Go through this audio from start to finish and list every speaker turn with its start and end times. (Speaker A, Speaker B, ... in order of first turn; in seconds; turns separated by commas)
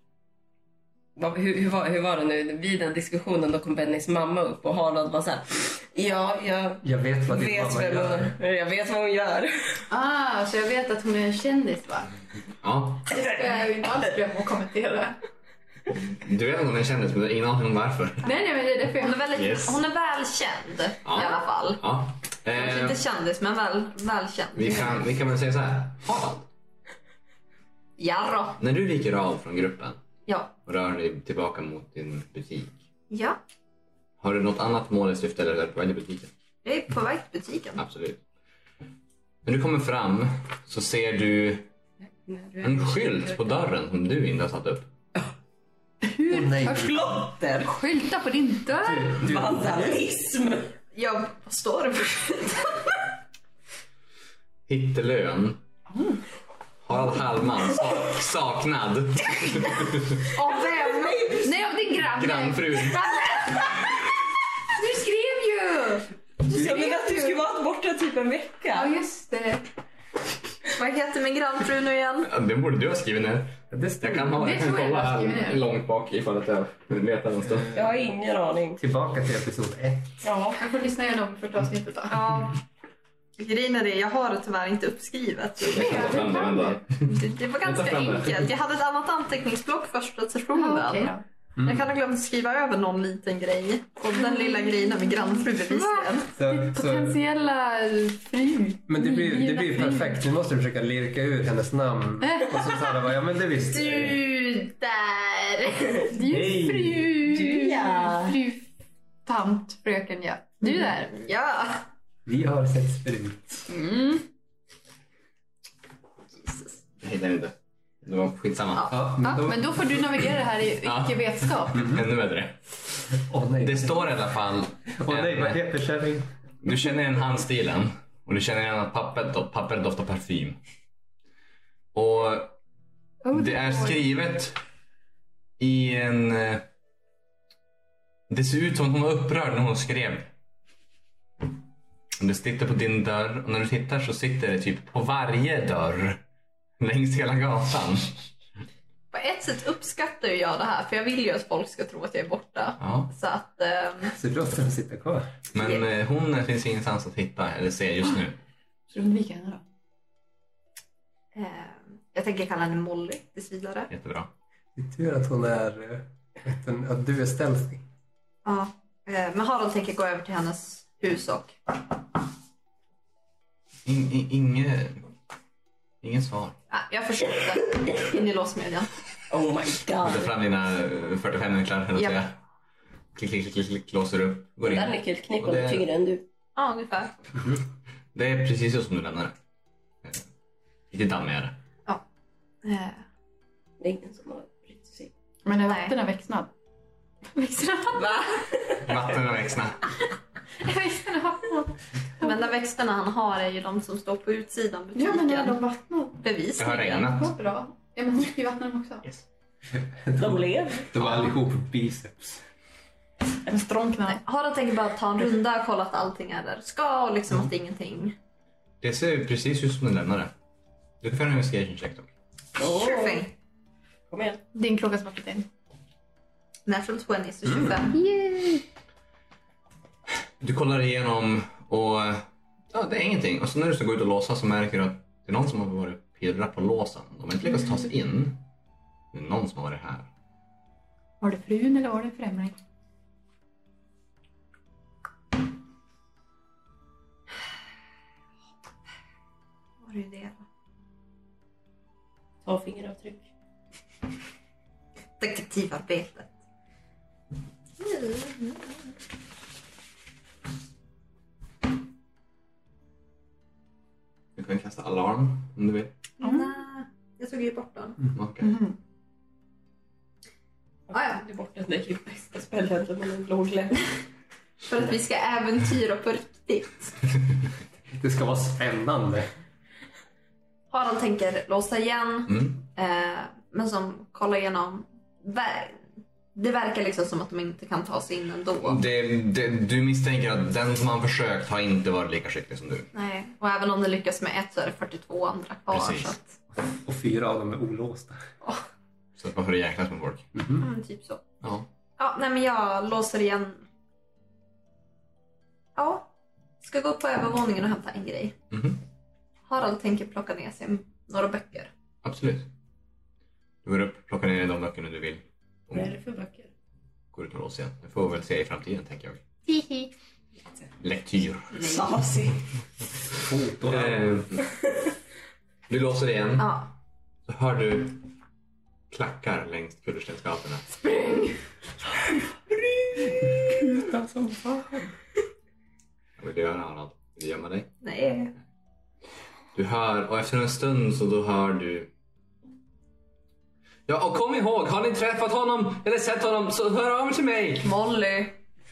Speaker A: 1.1-9.8, Speaker B: 6.8-8.3, Speaker C: 9.9-12.1, Speaker D: 12.6-13.1, Speaker C: 13.1-15.2, Speaker D: 16.2-18.2, Speaker C: 18.2-19.2, Speaker E: 19.0-21.8, Speaker D: 19.3-19.8, Speaker D: 21.0-23.0, Speaker E: 22.5-25.0, Speaker D: 24.5-26.5, Speaker E: 28.0-28.6, Speaker D: 28.6-30.0, Speaker E: 30.2-30.5, Speaker D: 30.6-32.8, Speaker E: 33.1-33.4, Speaker D: 34.2-36.3, Speaker E: 36.6-37.8, Speaker D: 37.8-38.2, Speaker D: 39.4-41.7, Speaker A: 42.3-43.5, Speaker D: 42.6-44.9, Speaker C: 46.0-46.9, Speaker B: 46.3-47.3, Speaker A: 46.5-47.8, Speaker C: 47.6-49.2, Speaker B: 48.7-50.0, Speaker A: 49.1-50.7, Speaker E: 50.9-52.9, Speaker D: 54.7-55.6, Speaker C: 55.9-56.2, Speaker D: 56.8-60.2, Speaker C: 60.3-64.0, Speaker A: 60.4-61.6, Speaker D: 62.1-63.2, Speaker C: 64.7-67.4, Speaker A: 66.5-68.9, Speaker B: 66.5-66.8, Speaker C: 68.7-69.7, Speaker E: 70.7-72.3, Speaker D: 72.2-77.7, Speaker B: 73.7-74.4, Speaker C: 74.3-75.7, Speaker B: 77.4-78.0, Speaker A: 77.7-78.8, Speaker B: 78.8-80.1, Speaker A: 80.2-80.6, Speaker C: 80.6-82.1, Speaker E: 82.1-82.6, Speaker E: 83.4-96.3, Speaker D: 85.6-87.0, Speaker C: 85.7-86.8, Speaker D: 87.6-88.5, Speaker C: 90.5-91.2, Speaker B: 91.6-91.9, Speaker C: 95.6-100.2, Speaker B: 96.3-97.2, Speaker B: 98.9-104.2, Speaker C: 102.2-103.0, Speaker C: 103.9-108.7, Speaker B: 106.2-107.1, Speaker A: 107.2-108.4, Speaker C: 109.2-111.2, Speaker E: 111.0-111.8, Speaker B: 112.2-113.7, Speaker C: 113.7-114.2, Speaker D: 117.0-119.1, Speaker B: 118.9-119.7, Speaker C: 119.2-121.9, Speaker D: 120.8-122.6, Speaker B: 123.2-124.1, Speaker D: 123.6-125.6, Speaker B: 125.0-126.3, Speaker D: 126.6-130.6, Speaker D: 131.9-132.6, Speaker C: 133.2-134.0, Speaker D: 133.3-134.6, Speaker D: 135.6-136.6, Speaker D: 138.3-140.3, Speaker D: 142.2-146.2, Speaker D: 146.8-148.2, Speaker E: 149.1-154.1, Speaker D: 152.8-153.1, Speaker B: 154.1-155.3, Speaker D: 155.5-158.4, Speaker C: 158.9-159.6, Speaker E: 161.3-163.9, Speaker D: 163.9-164.3, Speaker B: 164.8-167.8, Speaker E: 168.4-171.6, Speaker D: 173.8-175.1, Speaker D: 176.0-176.5, Speaker E: 176.7-178.9, Speaker A: 179.3-180.3, Speaker D: 180.0-182.3, Speaker D: 183.1-185.8, Speaker A: 184.6-186.2, Speaker E: 186.6-187.1, Speaker D: 188.1-189.3, Speaker D: 190.9-191.6, Speaker E: 192.6-193.0, Speaker A: 193.8-195.1, Speaker C: 195.4-196.5, Speaker E: 195.7-195.9, Speaker C: 197.3-198.3, Speaker E: 198.0-198.2, Speaker D: 198.8-199.8, Speaker C: 200.6-202.3, Speaker E: 202.2-205.6, Speaker C: 204.9-206.2, Speaker E: 206.2-207.2, Speaker D: 206.6-207.4, Speaker C: 207.1-209.1, Speaker B: 209.8-212.4, Speaker A: 210.2-210.9, Speaker C: 213.4-214.2, Speaker E: 214.1-218.1, Speaker D: 218.8-220.3, Speaker D: 221.0-222.1, Speaker A: 222.6-223.3, Speaker E: 222.6-223.3, Speaker A: 224.1-224.4, Speaker C: 224.5-225.4, Speaker E: 226.7-228.0, Speaker D: 230.4-238.4, Speaker D: 239.1-240.1, Speaker C: 241.2-242.6, Speaker E: 249.8-250.4, Speaker A: 252.4-253.2, Speaker E: 255.2-256.3, Speaker E: 257.8-258.8, Speaker D: 264.4-265.9, Speaker E: 266.2-268.0, Speaker C: 266.2-266.5, Speaker D: 268.1-268.6, Speaker C: 268.4-268.8, Speaker A: 270.9-273.8, Speaker E: 270.9-271.2, Speaker E: 274.7-276.9, Speaker B: 277.9-279.3, Speaker E: 280.7-288.8, Speaker D: 282.3-282.6, Speaker D: 288.6-292.9, Speaker E: 292.9-296.4, Speaker D: 295.7-296.1, Speaker B: 296.8-298.2, Speaker D: 299.1-300.3, Speaker B: 300.3-300.6, Speaker E: 300.6-301.2, Speaker D: 301.4-301.7, Speaker E: 302.0-303.6, Speaker E: 305.8-306.1, Speaker E: 306.6-308.4, Speaker D: 308.5-308.8, Speaker E: 309.5-311.7, Speaker D: 312.0-312.5, Speaker D: 313.6-316.0, Speaker A: 315.7-316.5, Speaker D: 317.1-319.2, Speaker C: 319.5-319.9, Speaker D: 320.8-321.6, Speaker A: 321.5-322.4, Speaker E: 321.5-321.9, Speaker B: 323.1-324.1, Speaker D: 323.7-324.4, Speaker D: 325.7-326.5, Speaker E: 326.4-326.7, Speaker D: 327.3-328.0, Speaker D: 328.9-330.6, Speaker C: 331.0-331.3, Speaker A: 333.6-334.9, Speaker D: 336.2-337.7, Speaker E: 337.8-338.3, Speaker D: 339.5-341.9, Speaker D: 343.9-347.7, Speaker E: 347.6-348.4